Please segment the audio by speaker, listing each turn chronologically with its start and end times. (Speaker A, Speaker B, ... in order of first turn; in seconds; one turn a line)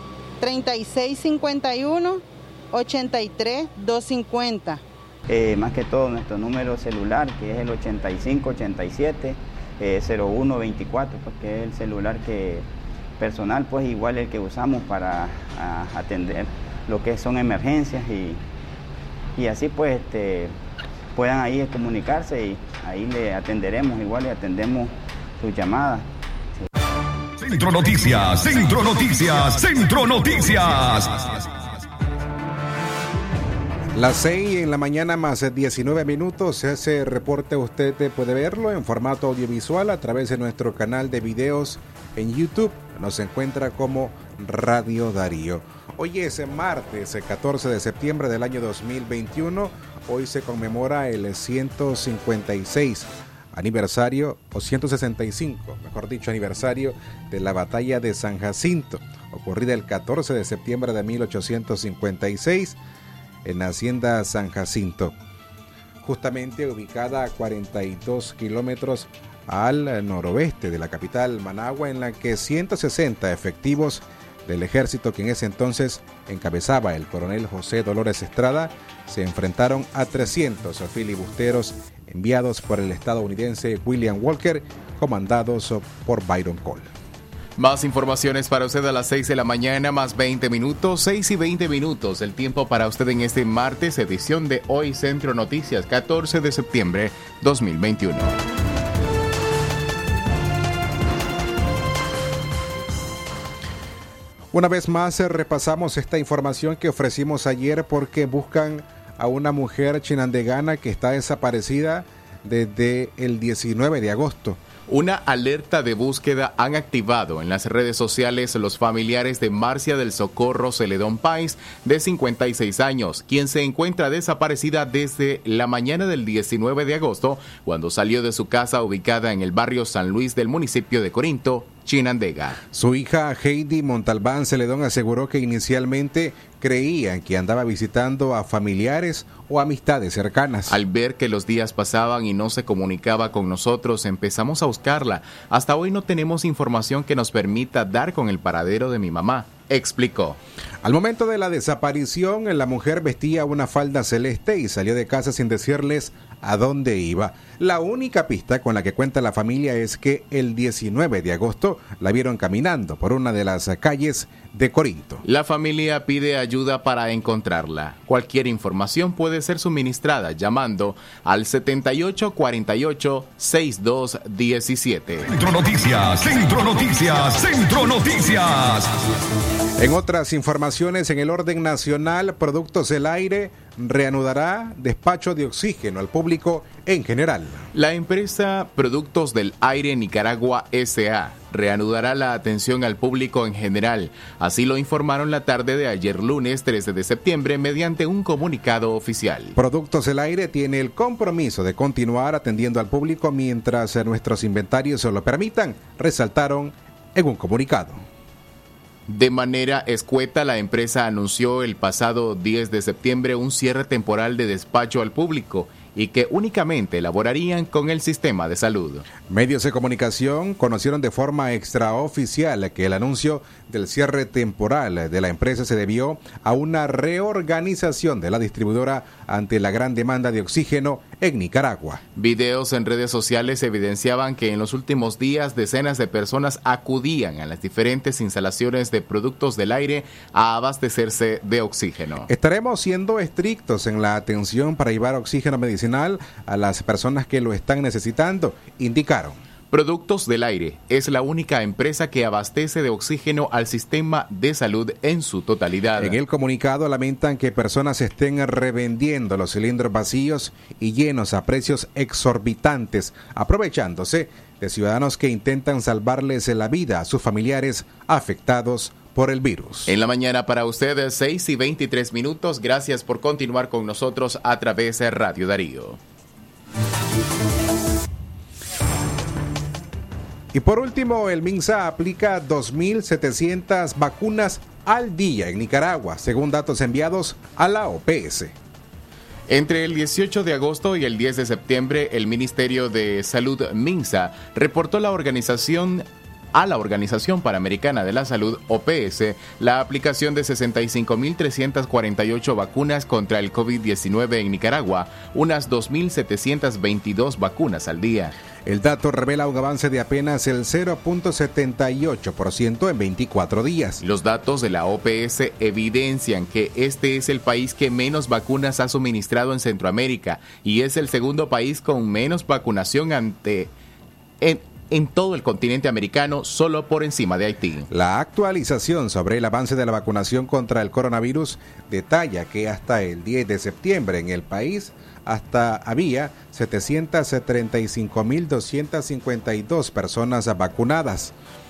Speaker A: 0.4-4.8
Speaker B: 5.3-12.7
Speaker B: 13.2-18.4
Speaker B: 19.4-20.6
Speaker B: 21.1-26.1
Speaker C: 27.4-31.5
Speaker D: 33.9-62.8
Speaker D: 63.5-65.2
Speaker D: 66.0-86.9
Speaker E: 87.6-98.4
Speaker D: 104.5-114.6
Speaker E: 114.9-132.6
Speaker D: 132.7-140.8
Speaker E: 140.7-150.4
Speaker D: 150.8-165.2
Speaker E: 165.2-175.3
Speaker C: 175.3-178.9
Speaker D: 179.8-187.7
Speaker E: 187.7-199.6
Speaker D: 199.6-208.0
Speaker E: 209.1-219.1
Speaker D: 219.3-232.0
Speaker E: 232.2-242.3
Speaker D: 242.3-249.4
Speaker E: 249.7-256.2
Speaker D: 256.0-269.9
Speaker E: 269.9-276.0
Speaker D: 280.5-288.6
Speaker E: 289.5-308.3
Speaker D: 308.7-314.0
Speaker E: 314.0-323.7
Speaker E: 324.4-327.9
Speaker D: 327.9-341.3